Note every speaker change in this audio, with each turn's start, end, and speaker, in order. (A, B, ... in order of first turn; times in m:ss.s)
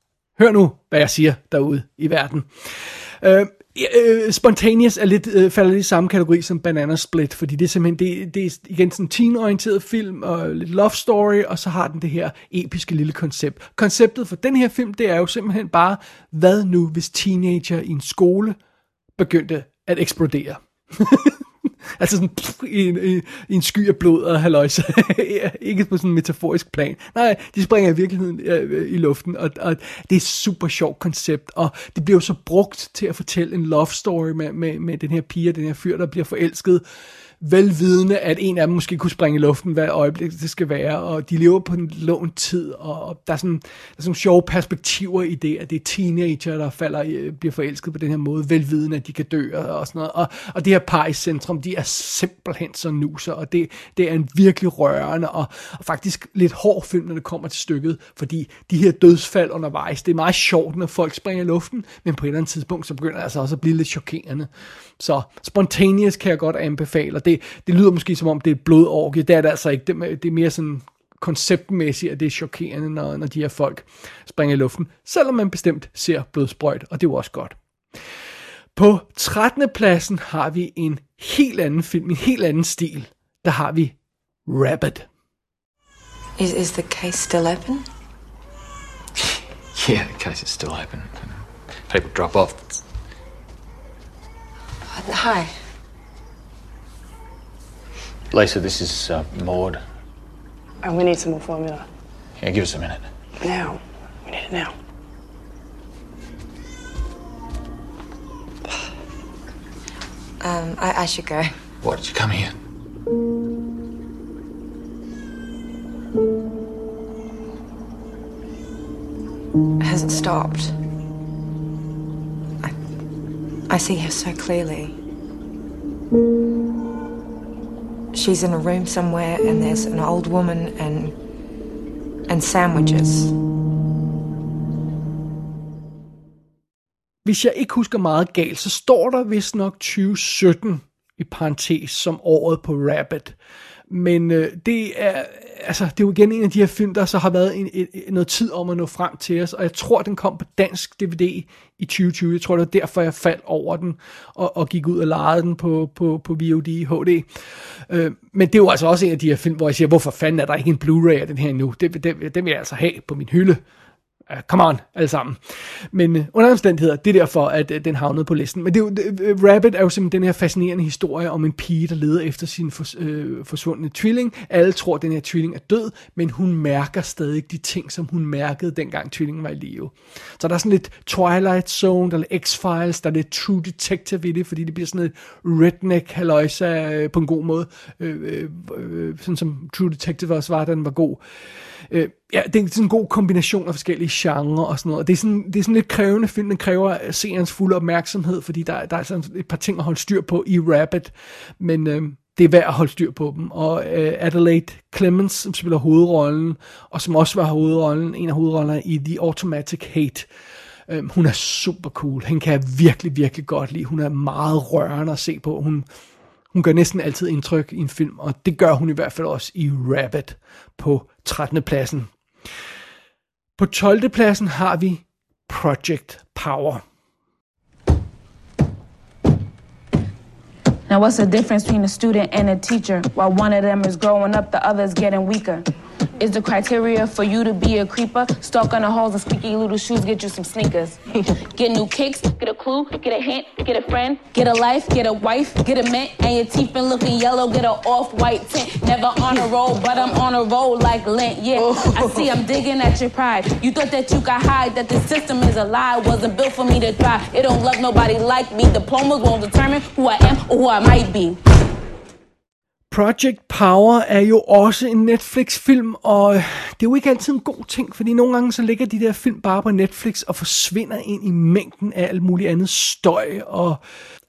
0:00.4-0:18.6 A
0:19.2-0:21.4 A
0:22.0-0:36.8 A
0:37.4-1:17.6 A
1:18.7-1:23.9 A
1:24.5-1:25.1 A
1:26.4-1:27.8 B
1:29.7-1:32.8 C
1:34.9-1:35.5 B
1:38.3-1:39.8 C
1:40.8-1:41.8 D
1:42.4-1:43.1 C
1:43.4-1:44.7 D
1:50.4-1:51.5 B
1:51.8-1:52.5 C
1:59.8-2:00.7 B
2:03.7-2:05.0 B
2:08.1-2:11.1 B
2:12.3-2:13.3 B
2:17.2-2:23.3 A
2:23.9-2:43.6 A
2:44.3-2:45.4 A
2:45.9-3:11.2 A
3:11.9-3:30.3 A
3:30.9-3:35.9 A
3:36.5-3:42.1 A
3:43.6-3:46.8 A
3:50.9-4:01.0 E
4:01.5-4:21.4 E
4:22.9-4:33.8 A